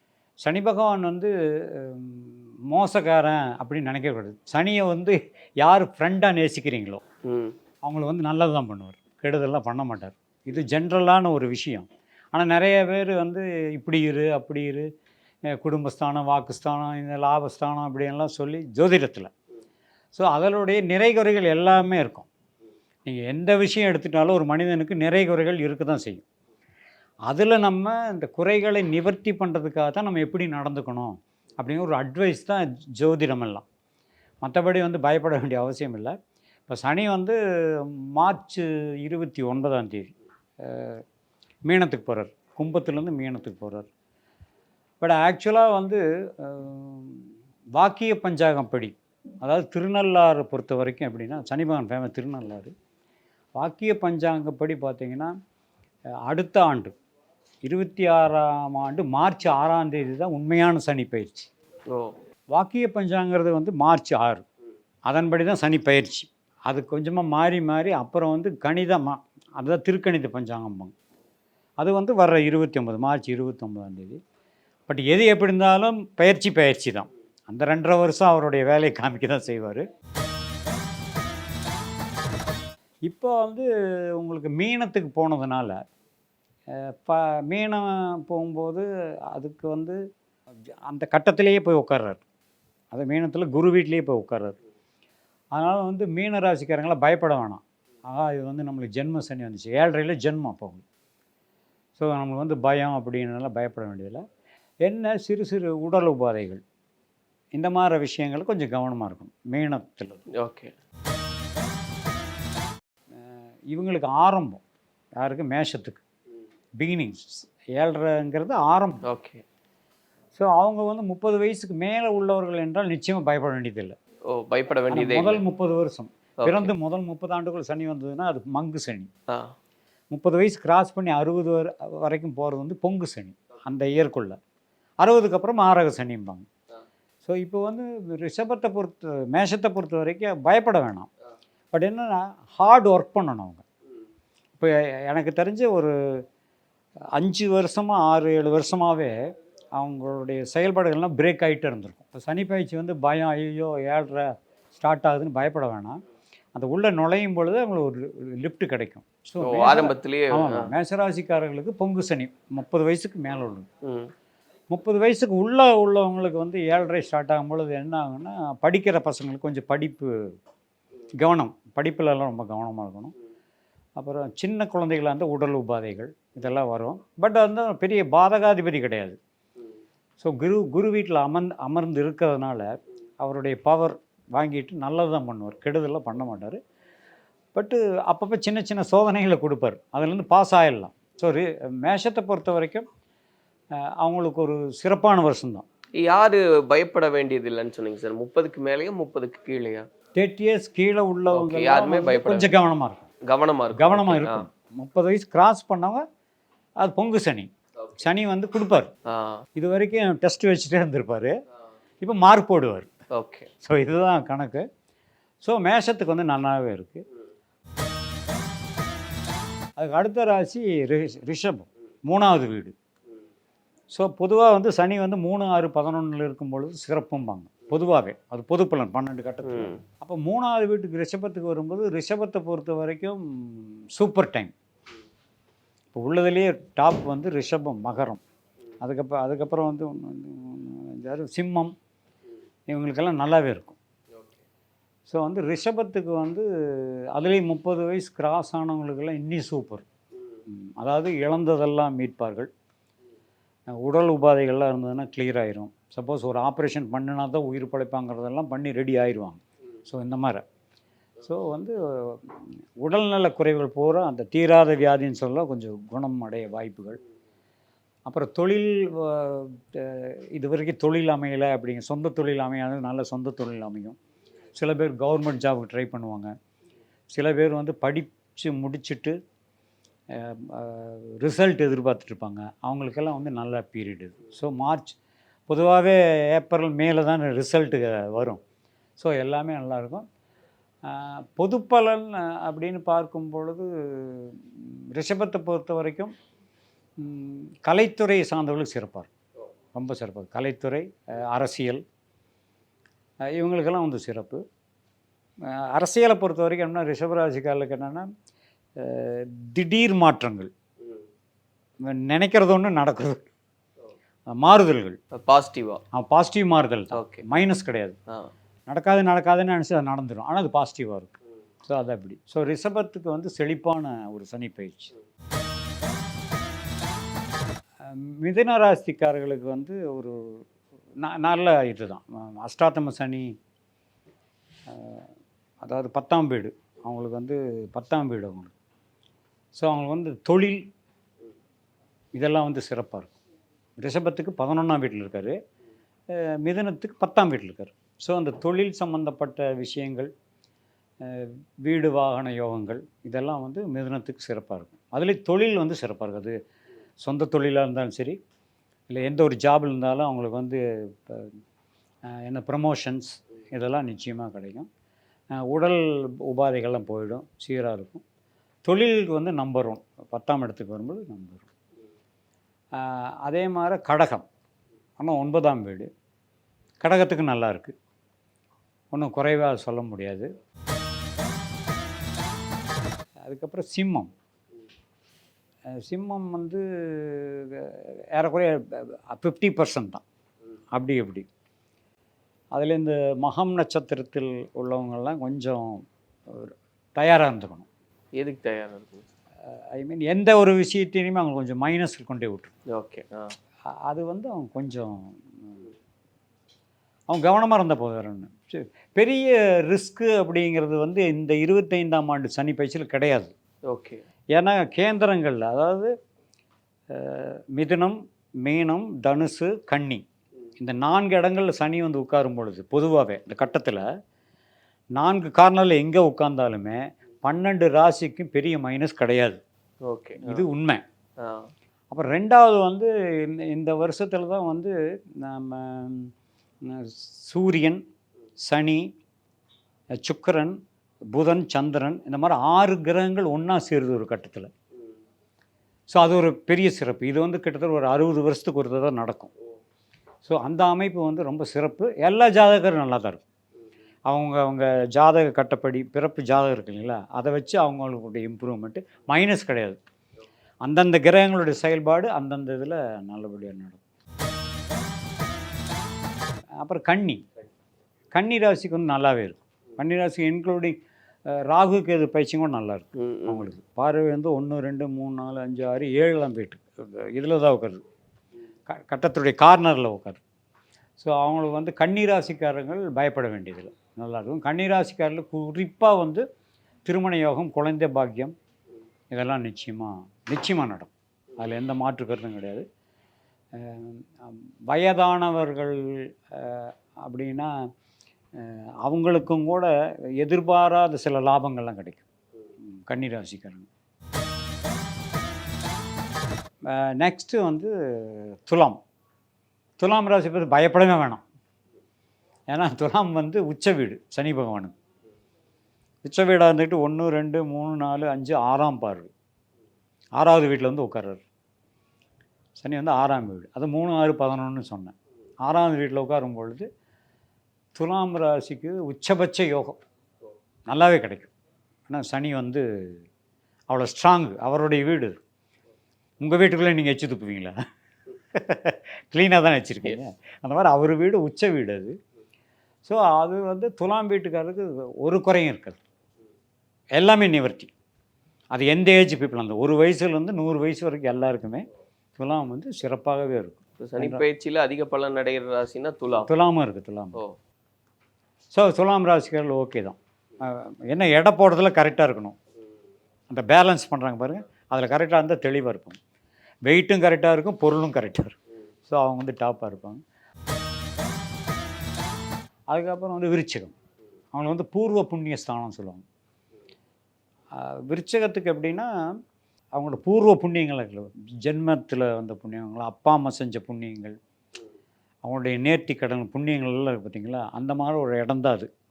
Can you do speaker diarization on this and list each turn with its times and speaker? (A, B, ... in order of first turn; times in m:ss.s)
0:00.4-0:07.0 A
0:07.2-0:07.5 B
0:07.8-0:14.9 A
0:15.5-0:19.3 A
0:20.1-0:22.3 A
0:23.0-0:26.2 A
0:27.3-0:33.6 A
0:34.4-0:36.2 A
0:36.7-0:41.0 A
0:41.7-0:43.9 A
0:45.0-0:52.7 A
0:53.6-0:55.3 A
0:56.3-0:57.0 A
0:57.6-1:01.5 A
1:01.9-1:02.2 B
1:02.5-1:04.4 A
1:05.1-1:10.9 A
1:11.8-1:14.2 A
1:14.9-1:19.8 A
1:23.0-1:25.8 A
1:26.7-1:30.0 A
1:30.9-1:32.2 A
1:32.9-1:34.6 A
1:35.5-1:40.8 A
1:42.0-1:44.2 A
1:44.8-1:46.6 A
1:47.5-1:50.2 A
1:50.4-1:50.7 B
1:53.1-1:54.6 A
1:55.2-1:56.0 A
1:56.8-1:59.0 A
1:59.1-1:59.4 B
2:00.4-2:04.0 A
2:04.3-2:05.4 B
2:04.9-2:09.1 A
2:06.4-2:06.7 B
2:10.1-2:14.4 A
2:15.0-2:16.5 A
2:17.2-2:21.1 A
2:21.7-2:23.6 A
2:24.6-2:26.2 A
2:27.2-2:36.0 A
2:36.5-2:43.7 A
2:39.4-2:40.7 B
2:43.8-2:44.1 B
2:44.7-2:50.1 A
2:51.2-2:53.1 A
2:54.0-2:59.2 A
3:00.2-3:02.7 A
3:03.2-3:06.6 A
3:07.5-3:12.9 A
3:13.8-3:15.6 A
3:16.0-3:19.8 B
3:20.2-3:23.1 A
3:21.3-3:22.5 B
3:23.3-3:24.4 B
3:23.7-3:26.0 A
3:26.8-3:28.9 A
3:29.1-3:29.4 B
3:29.6-3:31.3 A
3:32.0-3:32.9 A
3:33.1-3:33.5 B
3:33.6-3:34.6 A
3:35.4-3:37.0 A
3:39.8-3:42.7 A
3:43.9-3:54.5 A
3:49.4-3:49.8 B
3:55.9-3:58.2 A
3:58.8-4:01.8 A
4:02.7-4:03.8 A
4:05.1-4:09.9 A
4:10.5-4:12.5 A
4:13.7-4:20.4 A
4:21.2-4:27.0 A
4:28.0-4:34.0 A
4:34.6-4:36.4 A
4:37.1-4:39.2 A
4:40.1-4:45.0 A
4:45.5-4:48.4 A
4:49.0-4:50.1 A
4:50.8-4:56.1 A
4:57.0-4:59.1 A
4:59.7-5:01.8 A
5:03.3-5:04.4 A
5:05.5-5:08.1 A
5:08.8-5:10.5 A
5:11.8-5:13.3 A
5:14.3-5:15.0 A
5:15.1-5:15.8 B
5:15.9-5:18.0 A
5:16.9-5:17.2 B
5:18.7-5:24.9 A
5:27.8-5:30.4 A
5:31.0-5:33.4 A
5:34.7-5:35.1 A
5:35.6-5:38.5 A
5:39.5-5:40.7 A
5:42.1-5:43.2 A
5:43.8-5:45.4 A
5:46.1-5:50.1 A
5:51.0-5:56.4 A
5:57.0-5:58.2 A
5:58.9-6:01.4 A
6:02.1-6:04.7 A
6:05.3-6:08.0 A
6:08.6-6:11.5 A
6:12.7-6:14.3 A
6:15.0-6:15.9 A
6:16.8-6:17.8 A
6:18.9-6:20.3 A
6:23.2-6:24.1 A
6:25.7-6:30.0 A
6:30.7-6:31.3 A
6:32.5-6:37.7 A
6:38.2-6:39.0 B
6:39.5-6:42.5 A
6:42.7-6:43.3 B
6:43.7-6:45.6 A
6:47.1-6:53.3 A
6:53.7-6:54.0 B
6:54.3-6:55.9 A
6:56.9-7:00.0 A
7:00.6-7:03.8 A
7:05.0-7:09.4 A
7:09.8-7:10.4 B
7:10.2-7:10.8 A
7:11.2-7:11.5 B
7:11.9-7:16.1 A
7:16.6-7:17.8 A
7:18.4-7:18.9 A
7:20.0-7:20.6 A
7:21.1-7:24.5 A
7:25.9-7:29.3 A
7:30.2-7:33.2 A
7:34.1-7:39.8 A
7:40.6-7:43.8 A
7:46.6-7:47.2 A
7:48.1-7:57.8 A
7:53.0-7:53.5 B
7:58.7-8:00.2 A
8:01.0-8:06.2 A
8:06.8-8:08.3 A
8:09.1-8:12.6 A
8:13.5-8:17.6 A
8:18.4-8:22.0 A
8:22.7-8:23.7 A
8:26.7-8:28.8 A
8:29.8-8:31.2 A
8:32.5-8:34.7 A
8:36.0-8:39.1 A
8:40.2-8:41.2 A
8:42.6-8:46.7 A
8:47.8-8:49.8 A
8:50.7-8:51.3 A
8:51.9-8:53.0 A
8:53.7-8:55.2 A
8:56.2-8:57.6 A
8:58.3-9:02.0 A
9:02.8-9:05.8 A
9:07.0-9:07.7 A
9:08.5-9:11.7 A
9:12.2-9:14.2 A
9:13.8-9:16.3 B
9:16.2-9:17.2 A
9:18.5-9:22.4 A
9:23.3-9:26.0 A
9:26.6-9:30.0 A
9:32.7-9:33.7 A
9:34.3-9:36.0 A
9:37.5-9:38.9 A
9:39.7-9:44.2 A
9:45.2-9:48.7 A